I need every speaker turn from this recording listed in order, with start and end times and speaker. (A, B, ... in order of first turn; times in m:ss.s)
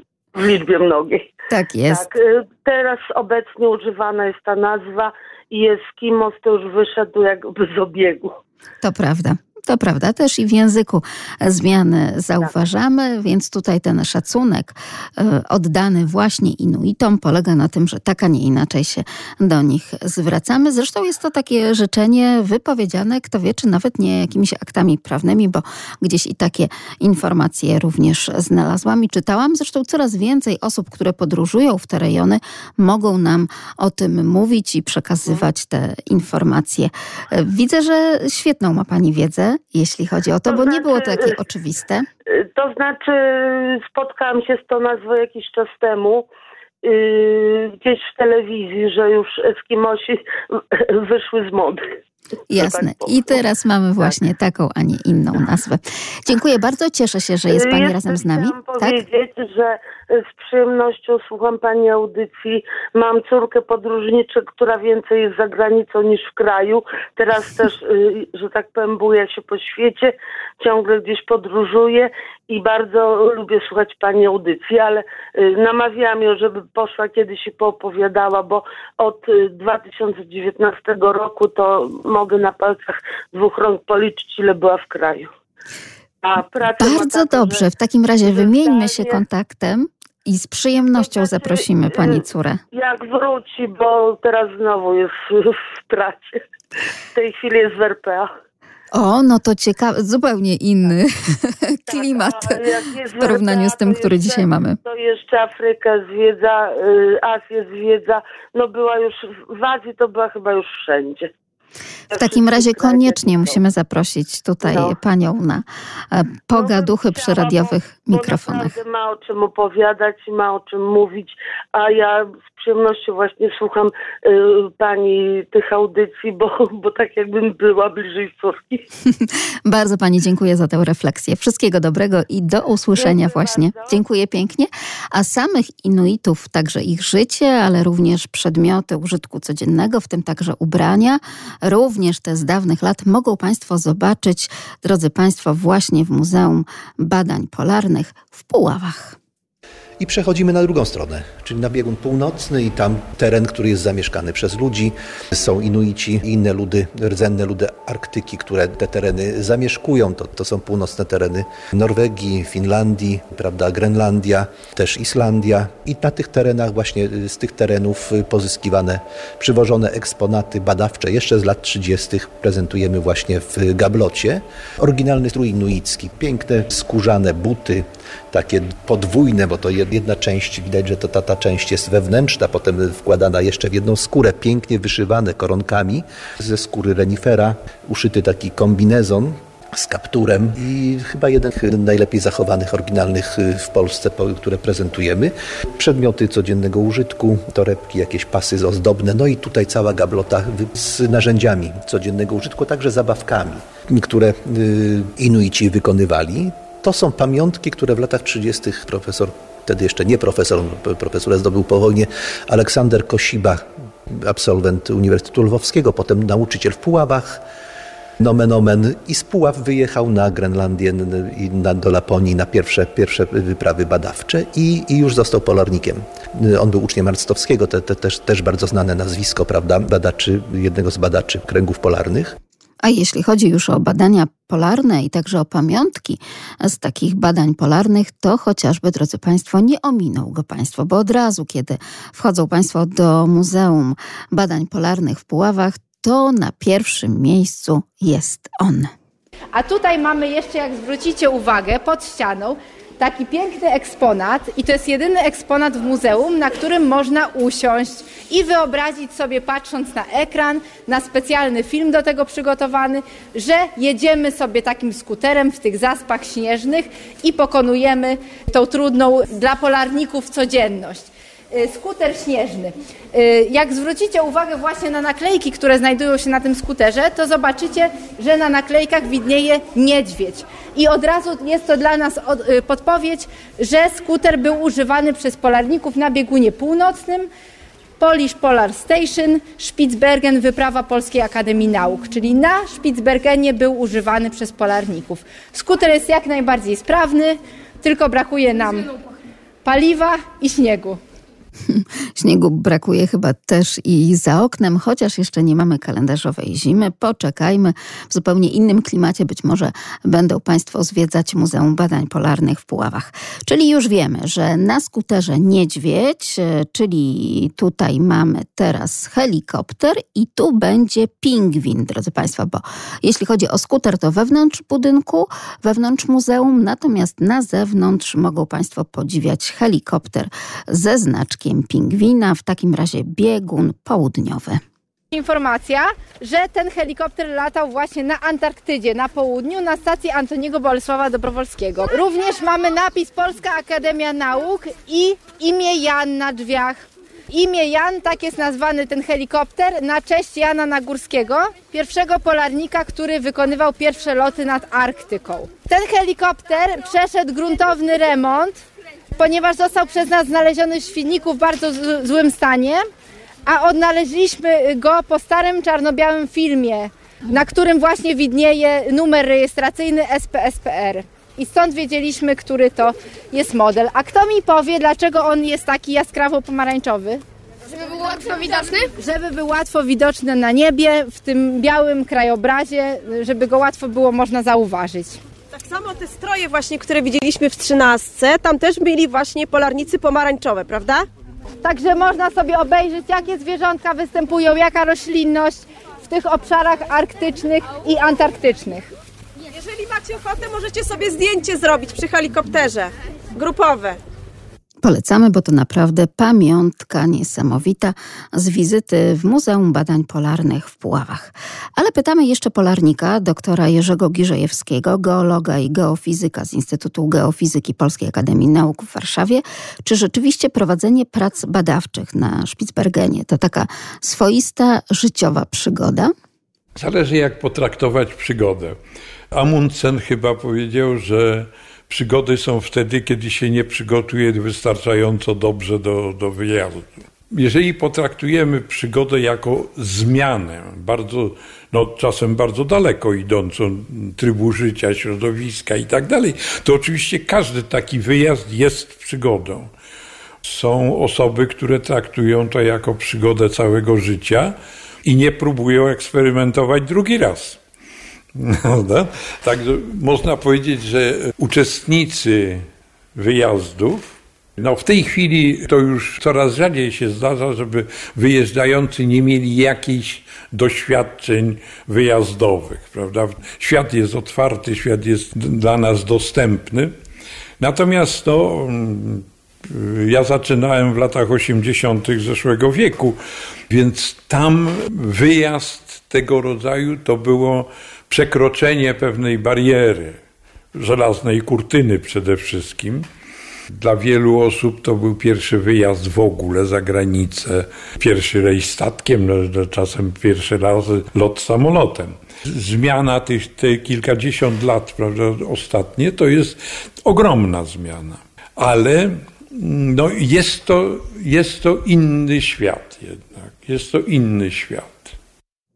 0:00.3-0:01.2 A
0:01.5-0:02.0 B
0:01.9-0:08.3 A
0:08.8-0:42.0 B
0:40.5-0:41.3 A
0:42.4-0:46.2 A
0:46.8-0:51.8 A
0:52.5-0:59.0 B
0:52.6-0:53.4 A
0:57.5-1:25.3 A
1:26.2-1:27.7 A
1:26.8-1:32.6 B
1:28.2-1:29.2 A
1:31.0-1:32.2 A
1:32.7-1:36.4 A
1:37.1-1:38.3 A
1:38.9-1:42.6 B
1:41.9-1:51.3 A
1:43.2-1:44.8 B
1:52.1-1:53.6 A
1:52.1-1:58.8 B
1:54.6-1:55.0 A
1:56.5-2:08.8 A
2:09.2-2:29.2 B
2:12.9-2:14.0 A
2:30.0-3:37.4 C
3:38.2-3:52.4 C
3:52.8-4:08.9 B
4:09.5-4:47.3 D
4:48.0-4:58.9 D
4:59.6-5:01.0 D
5:01.7-5:34.6 B
5:35.1-5:58.6 D
5:59.1-6:02.8 D
6:03.4-6:17.2 D
6:17.9-6:25.2 D
6:25.5-6:31.0 E
6:31.6-6:38.9 D
6:39.5-6:44.0 E
6:44.8-7:06.1 B
7:06.8-7:08.8 F
7:09.3-7:29.7 F
7:30.4-7:37.6 F
7:38.3-7:56.9 F
7:57.6-8:03.2 F
8:03.7-8:10.2 F
8:10.7-8:13.0 F
8:13.7-8:35.2 F